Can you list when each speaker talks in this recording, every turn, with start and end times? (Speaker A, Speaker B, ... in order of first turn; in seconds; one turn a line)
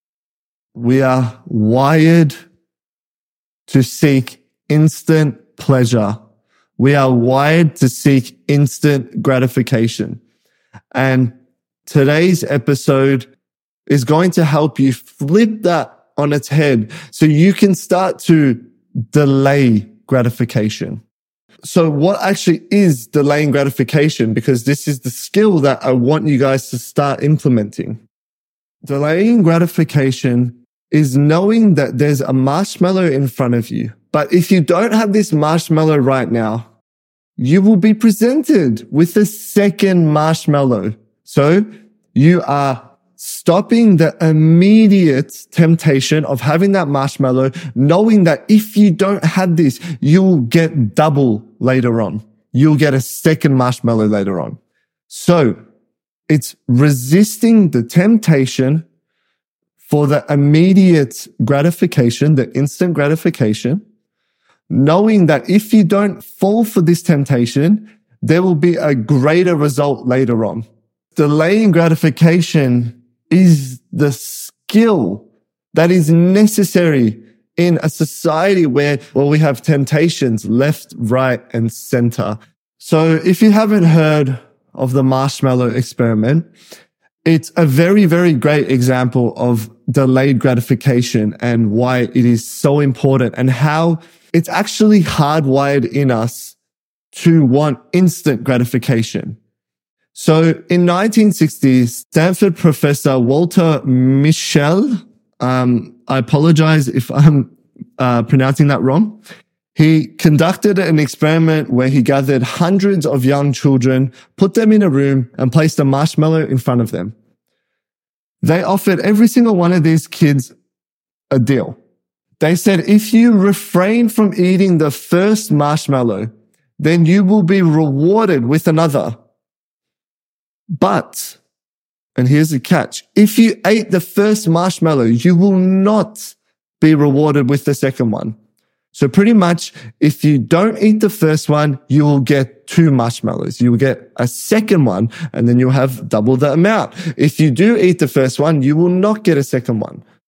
Speaker A: 0.7-2.3
Speaker A: 3.7-6.2
Speaker A: 6.8-10.2
Speaker A: 10.9-11.3
Speaker A: 11.8-13.3
Speaker A: 13.9-21.0
Speaker A: 21.6-28.0
Speaker A: 28.8-36.7
Speaker A: 37.4-55.6
Speaker A: 56.3-58.8
Speaker A: 59.8-63.8
Speaker A: 64.7-86.5
Speaker A: 87.2-96.6
Speaker A: 97.1-99.4
Speaker A: 100.1-109.2
Speaker A: 109.7-117.1
Speaker A: 118.4-120.5
Speaker A: 121.3-121.8
Speaker A: 122.4-129.1
Speaker A: 130.7-131.4
Speaker A: 132.2-138.3
Speaker A: 138.9-150.0